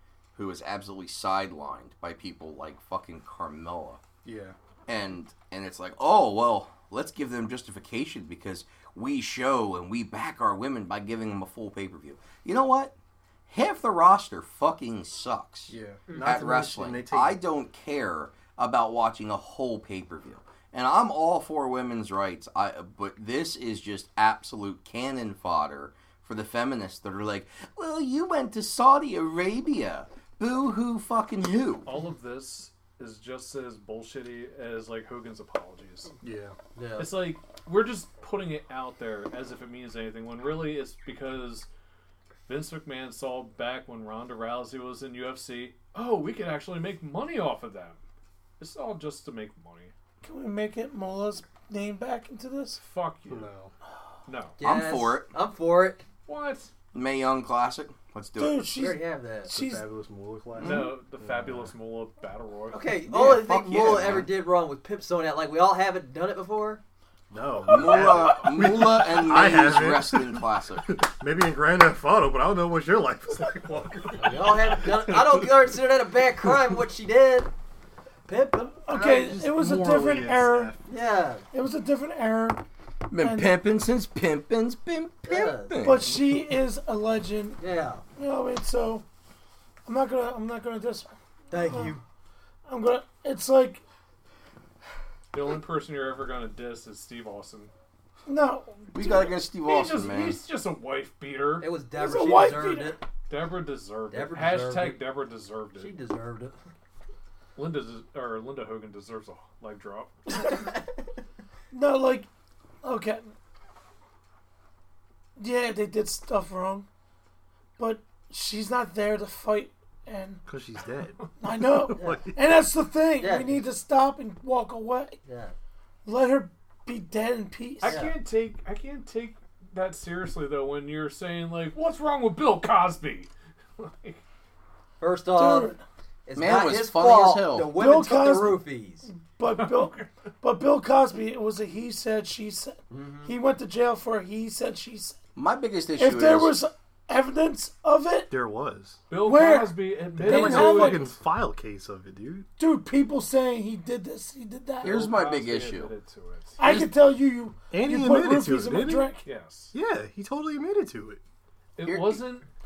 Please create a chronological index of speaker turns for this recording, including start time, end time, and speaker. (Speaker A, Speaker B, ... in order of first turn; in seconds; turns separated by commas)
Speaker A: 0.3-4.0, Speaker B: 4.2-4.6, Speaker A: 4.9-12.9, Speaker A: 13.5-31.9, Speaker B: 15.7-17.4, Speaker C: 31.9-36.1, Speaker B: 36.2-36.6, Speaker D: 36.8-37.1, Speaker C: 37.0-41.7, Speaker C: 42.5-48.0, Speaker C: 48.6-49.9, Speaker E: 50.2-52.8, Speaker C: 52.8-53.5, Speaker B: 53.3-53.7, Speaker C: 54.3-54.6, Speaker D: 54.6-56.0, Speaker A: 54.6-55.3, Speaker C: 56.3-56.7, Speaker A: 56.9-58.7, Speaker E: 58.4-59.9, Speaker D: 58.8-59.5, Speaker B: 59.5-61.7, Speaker C: 60.6-62.9, Speaker D: 62.7-66.8, Speaker A: 63.1-64.3, Speaker B: 67.3-75.5, Speaker A: 67.7-70.9, Speaker D: 74.2-77.5, Speaker D: 78.3-79.2, Speaker E: 78.8-80.7, Speaker B: 78.9-80.8, Speaker D: 80.9-81.5, Speaker E: 81.5-82.6, Speaker A: 83.1-86.2, Speaker E: 83.2-83.6, Speaker D: 85.2-85.9, Speaker E: 85.8-87.6, Speaker D: 87.6-88.0, Speaker E: 88.2-89.0, Speaker E: 89.9-92.0, Speaker D: 91.5-92.0, Speaker E: 92.7-93.8, Speaker C: 95.3-97.7, Speaker E: 98.3-99.4, Speaker A: 98.9-100.4, Speaker C: 99.7-101.7, Speaker D: 101.6-103.0, Speaker E: 102.0-103.0, Speaker C: 103.3-106.0, Speaker D: 104.1-105.1, Speaker D: 105.8-106.6, Speaker C: 107.6-110.1, Speaker E: 111.7-112.3, Speaker E: 112.8-113.3, Speaker E: 115.4-116.9, Speaker E: 117.8-120.4, Speaker B: 120.5-122.4, Speaker E: 121.4-125.2, Speaker D: 121.9-122.2, Speaker D: 123.2-123.6, Speaker D: 125.3-125.5, Speaker E: 126.0-128.1, Speaker C: 127.8-134.2, Speaker D: 127.8-128.2, Speaker D: 135.0-139.1, Speaker E: 135.3-135.8, Speaker A: 136.3-137.7, Speaker E: 137.7-145.2, Speaker C: 139.5-140.1, Speaker D: 142.9-143.3, Speaker A: 145.4-146.6, Speaker E: 146.0-148.3, Speaker B: 148.3-149.0, Speaker C: 149.1-151.1, Speaker E: 149.2-151.2, Speaker B: 150.2-152.5, Speaker E: 152.6-155.1, Speaker A: 154.8-155.9, Speaker C: 154.8-156.6, Speaker E: 156.6-159.2, Speaker A: 156.6-156.9, Speaker B: 157.7-159.1, Speaker C: 159.2-159.7, Speaker B: 159.7-161.2, Speaker C: 161.8-162.5, Speaker A: 161.8-162.2